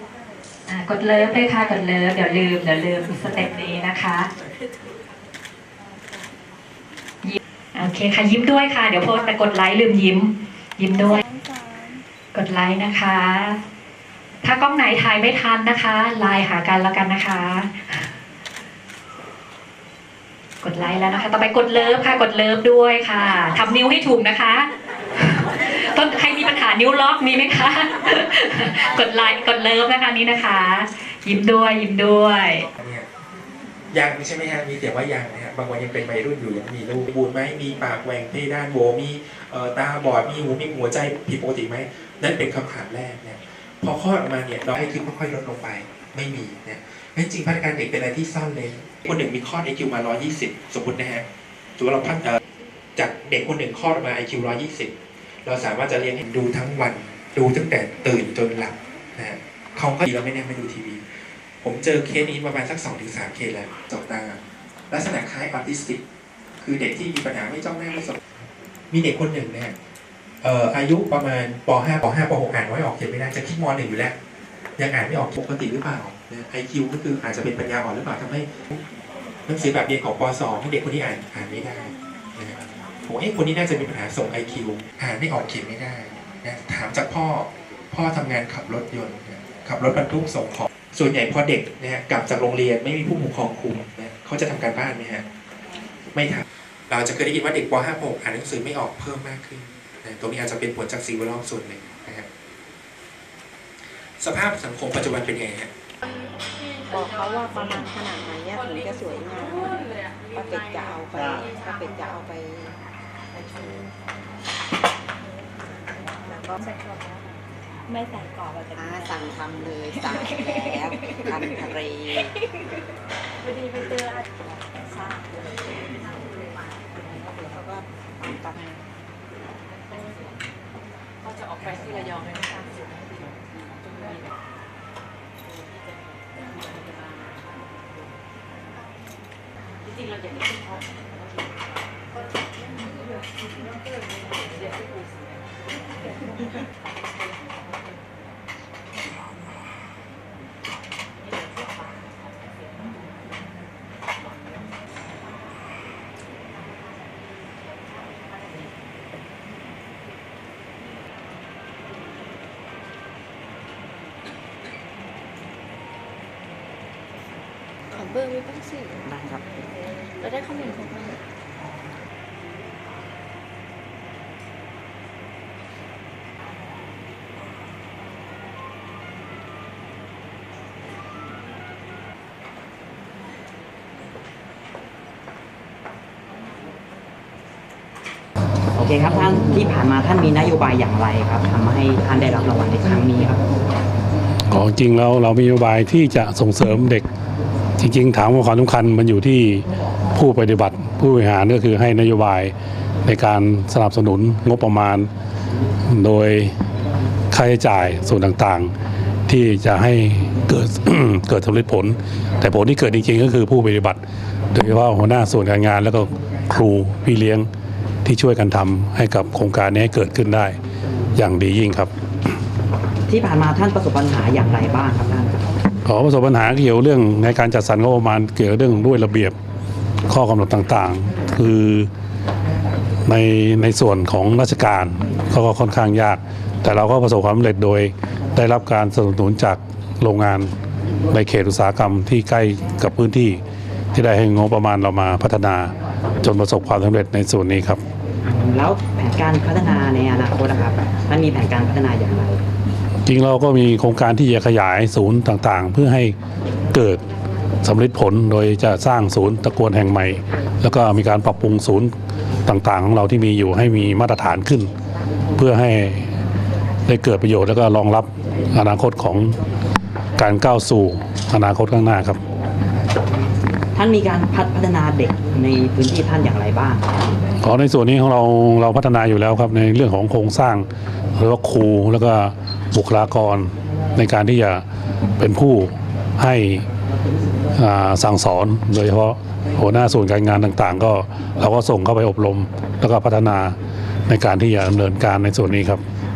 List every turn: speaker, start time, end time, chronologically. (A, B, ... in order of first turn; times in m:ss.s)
0:00.7-0:04.3 A
0:07.2-0:11.2 A
0:12.3-0:13.6 A
0:14.4-0:18.1 A
0:20.6-0:32.7 A
0:32.8-0:33.1 B
0:33.9-0:51.2 B
0:51.8-0:52.4 B
0:53.0-0:54.9 B
0:55.4-1:06.0 B
1:06.6-1:08.2 B
1:08.9-1:09.7 B
1:10.4-1:14.2 B
1:14.8-1:18.8 B
1:19.4-1:35.2 B
1:36.1-1:42.3 B
1:43.9-1:45.7 B
1:46.9-1:49.8 C
1:47.2-1:49.7 B
1:50.3-1:52.5 C
1:50.4-1:52.7 B
1:58.8-2:02.3 B
1:58.8-1:59.8 C
2:07.3-2:08.6 C
2:49.0-2:49.4 D
3:08.7-3:13.4 D
3:14.5-3:17.1 E
3:17.8-3:22.5 E
3:23.0-3:25.1 E
3:25.9-3:26.5 E
3:27.3-3:28.7 E
3:29.3-3:34.0 E
3:34.5-3:37.5 E
3:38.0-3:40.6 E
3:41.2-3:41.9 E
3:43.1-3:45.5 D
3:45.8-3:49.3 E
3:50.1-3:51.9 E
3:53.0-4:00.5 E
4:01.1-4:03.4 E
4:03.9-4:07.8 E
4:08.2-4:12.4 D
4:13.0-4:16.1 E
4:16.7-4:17.0 E
4:17.6-4:21.9 E
4:22.5-4:24.7 E
4:25.4-4:26.2 E
4:26.9-4:29.3 E
4:30.2-4:32.2 E
4:33.7-4:36.9 D
4:37.4-4:44.6 E
4:45.2-4:46.7 E
4:47.6-4:53.6 E
4:54.1-4:55.8 E